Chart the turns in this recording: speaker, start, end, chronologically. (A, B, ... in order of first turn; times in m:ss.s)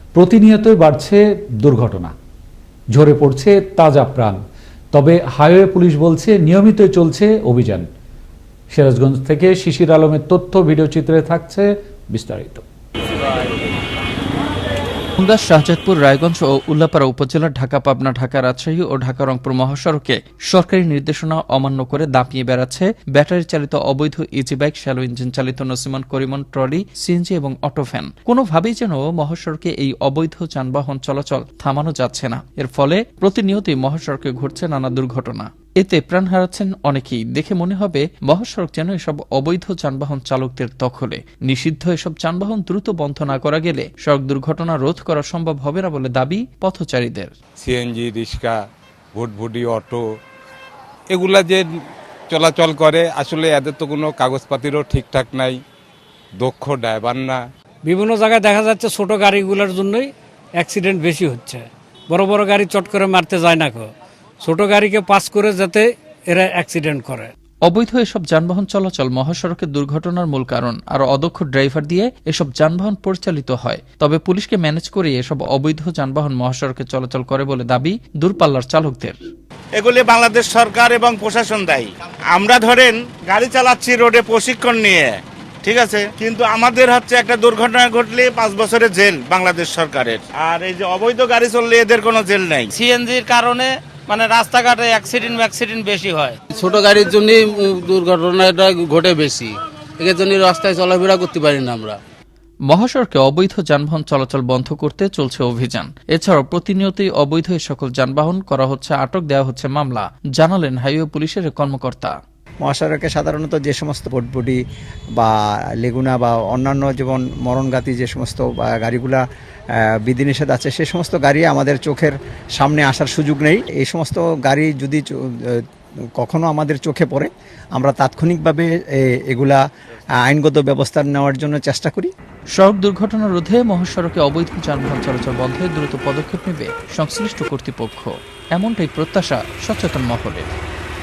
0:00.1-0:02.1 A
0:02.9-0:04.4 A
0:04.9-0:07.9 A
0:08.7-0:12.6 A
0:15.2-0:47.3 B
0:47.6-0:48.6 C
0:49.1-0:50.0 C
0:51.1-0:51.6 C
0:52.3-0:55.6 C
0:56.4-0:57.4 C
0:57.8-1:00.1 D
1:00.6-1:03.9 D
1:04.4-1:07.3 D
1:07.6-1:19.2 B
1:19.8-1:32.7 E
1:32.7-1:36.4 F
1:36.5-1:42.0 G
1:42.7-1:52.2 B
1:52.6-1:54.6 H
1:55.2-1:59.2 H
1:59.8-2:05.6 H
2:06.2-2:09.6 H
2:10.2-2:12.1 H
2:12.6-2:20.5 B